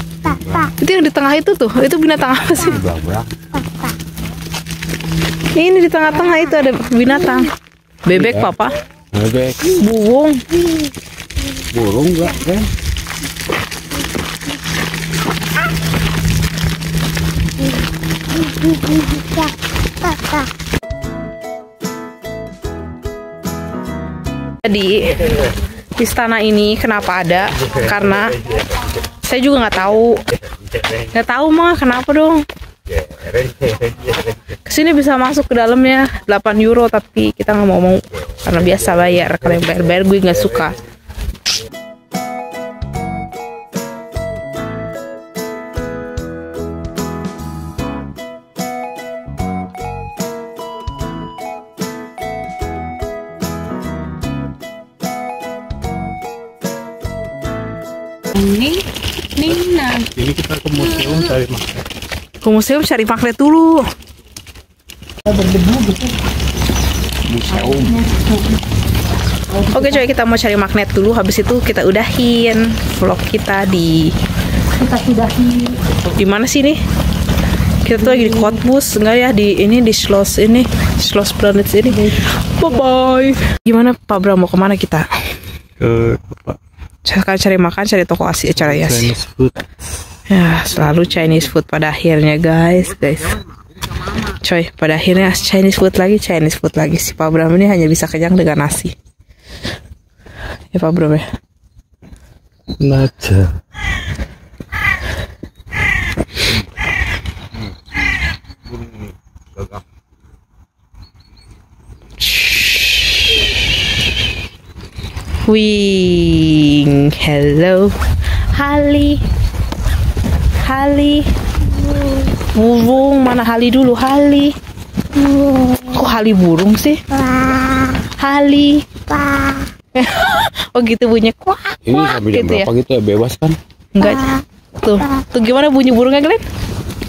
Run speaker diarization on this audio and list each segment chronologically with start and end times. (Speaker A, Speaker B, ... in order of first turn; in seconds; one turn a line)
Speaker A: 0.2-0.7
Speaker B: 0.8-2.8
Speaker A: 2.6-3.3
Speaker B: 5.5-7.5
Speaker B: 8.0-8.7
Speaker A: 8.1-8.5
Speaker A: 9.1-9.7
Speaker B: 9.7-10.4
Speaker A: 11.7-12.7
Speaker B: 24.6-25.2
Speaker B: 26.0-28.5
Speaker B: 29.2-30.2
Speaker B: 30.9-32.4
Speaker B: 34.6-40.8
Speaker C: 58.3-58.8
Speaker C: 59.4-60.1
Speaker D: 60.1-61.8
Speaker B: 62.4-63.8
Speaker C: 65.2-66.2
Speaker A: 67.3-68.0
Speaker C: 67.5-68.6
Speaker C: 69.5-70.0
Speaker B: 69.7-74.1
Speaker C: 74.7-75.8
Speaker B: 76.1-76.8
Speaker B: 77.8-85.0
Speaker C: 78.0-78.6
Speaker C: 81.9-82.1
Speaker D: 85.8-86.6
Speaker B: 87.0-89.1
Speaker D: 88.6-89.6
Speaker B: 90.3-93.4
Speaker B: 94.2-98.9
Speaker B: 100.7-101.2
Speaker D: 102.8-103.5
Speaker A: 108.7-109.8
Speaker B: 112.2-112.7
Speaker B: 115.5-117.9
Speaker B: 118.5-119.2
Speaker B: 120.6-121.3
Speaker B: 122.4-124.5
Speaker B: 125.7-127.0
Speaker B: 128.2-128.9
Speaker B: 129.9-132.7
Speaker A: 131.8-133.6
Speaker B: 133.9-136.4